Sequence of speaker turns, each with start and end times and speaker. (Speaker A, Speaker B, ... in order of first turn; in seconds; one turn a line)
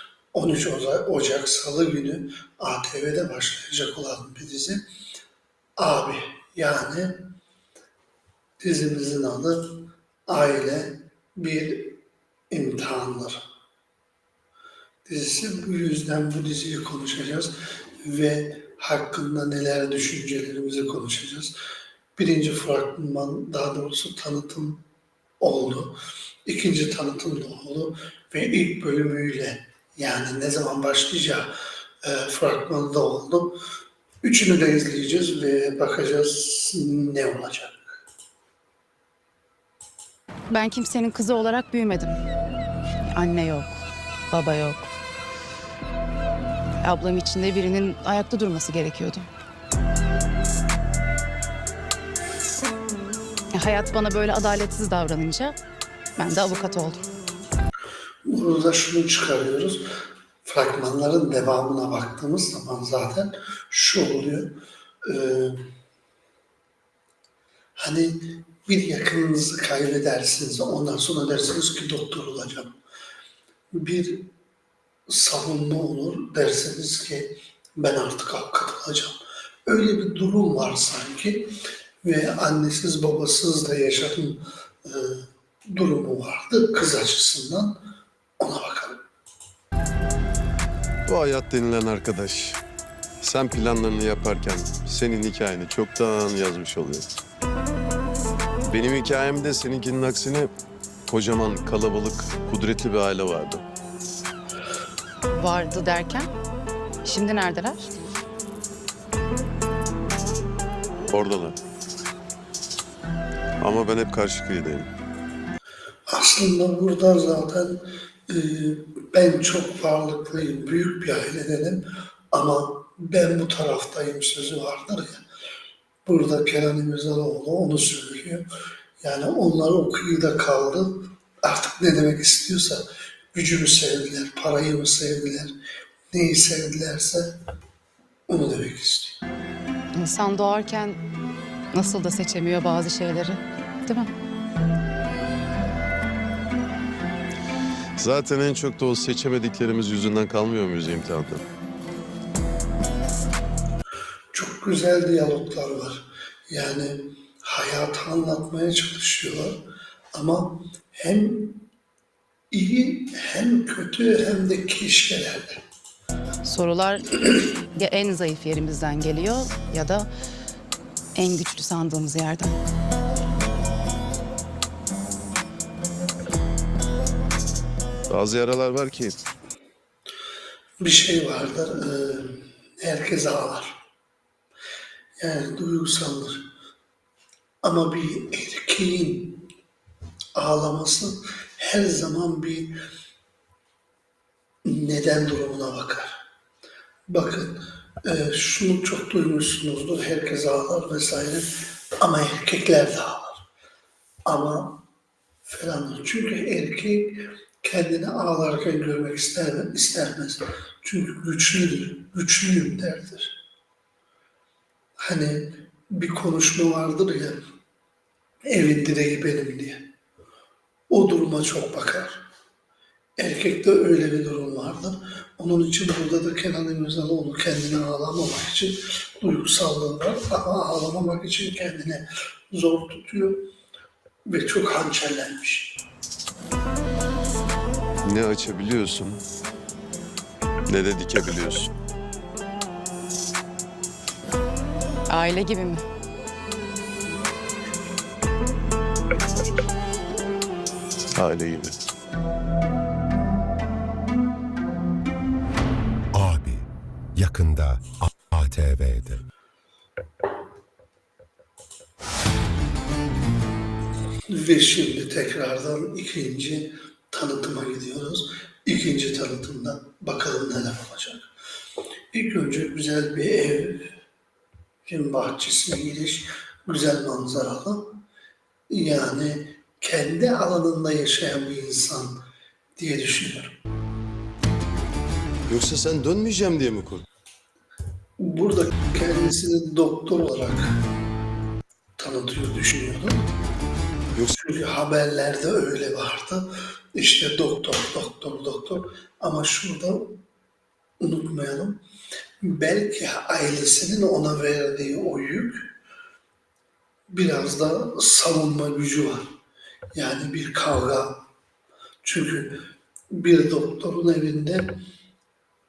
Speaker A: 0.3-4.8
Speaker A: 5.8-7.3
Speaker A: 8.6-12.0
Speaker A: 12.5-13.4
Speaker A: 15.1-21.5
Speaker A: 22.2-24.8
Speaker A: 25.4-31.5
Speaker A: 32.0-33.6
Speaker A: 34.2-38.0
Speaker B: 40.5-42.2
Speaker B: 43.1-44.9
Speaker B: 46.8-49.3
Speaker B: 53.5-55.6
Speaker B: 56.2-57.1
Speaker A: 58.3-59.9
Speaker A: 60.4-65.6
Speaker A: 67.8-72.7
Speaker A: 73.8-74.3
Speaker A: 75.1-79.2
Speaker A: 79.7-81.5
Speaker A: 82.0-87.8
Speaker A: 88.4-89.0
Speaker C: 91.1-92.6
Speaker C: 93.2-97.1
Speaker C: 98.7-100.5
Speaker C: 101.1-103.7
Speaker B: 105.3-106.3
Speaker B: 107.0-107.9
Speaker C: 111.1-111.6
Speaker C: 113.6-114.9
Speaker A: 116.1-125.2
Speaker A: 126.0-128.4
Speaker A: 129.0-132.8
Speaker A: 133.3-135.5
Speaker A: 136.1-137.3
Speaker A: 138.3-139.2
Speaker B: 139.9-141.0
Speaker B: 141.7-144.1
Speaker C: 148.0-151.4
Speaker A: 154.3-159.6
Speaker A: 160.1-161.7
Speaker A: 162.5-165.6
Speaker B: 166.4-170.1
Speaker B: 171.2-172.6
Speaker C: 178.1-179.2
Speaker A: 180.8-183.8
Speaker A: 185.2-186.4
Speaker A: 187.6-189.5
Speaker A: 190.3-192.7
Speaker A: 194.6-196.2
Speaker A: 197.1-203.4
Speaker A: 204.2-204.8
Speaker A: 205.4-213.4
Speaker A: 215.0-217.4
Speaker A: 218.4-219.8
Speaker A: 220.9-222.2
Speaker A: 223.2-233.4
Speaker A: 234.3-235.8
Speaker C: 238.0-239.2
Speaker C: 240.7-241.7
Speaker B: 245.1-245.8
Speaker C: 251.2-251.8
Speaker D: 256.1-259.2
Speaker A: 264.3-271.3
Speaker A: 272.1-273.9
Speaker A: 274.9-278.0
Speaker A: 278.7-282.2
Speaker A: 282.8-283.6
Speaker C: 285.5-287.1
Speaker A: 288.2-290.8
Speaker A: 292.0-293.3
Speaker A: 294.4-300.2
Speaker A: 301.0-301.8
Speaker A: 302.4-305.7
Speaker A: 307.1-309.3
Speaker A: 309.9-311.2
Speaker A: 312.0-312.6
Speaker A: 313.1-314.8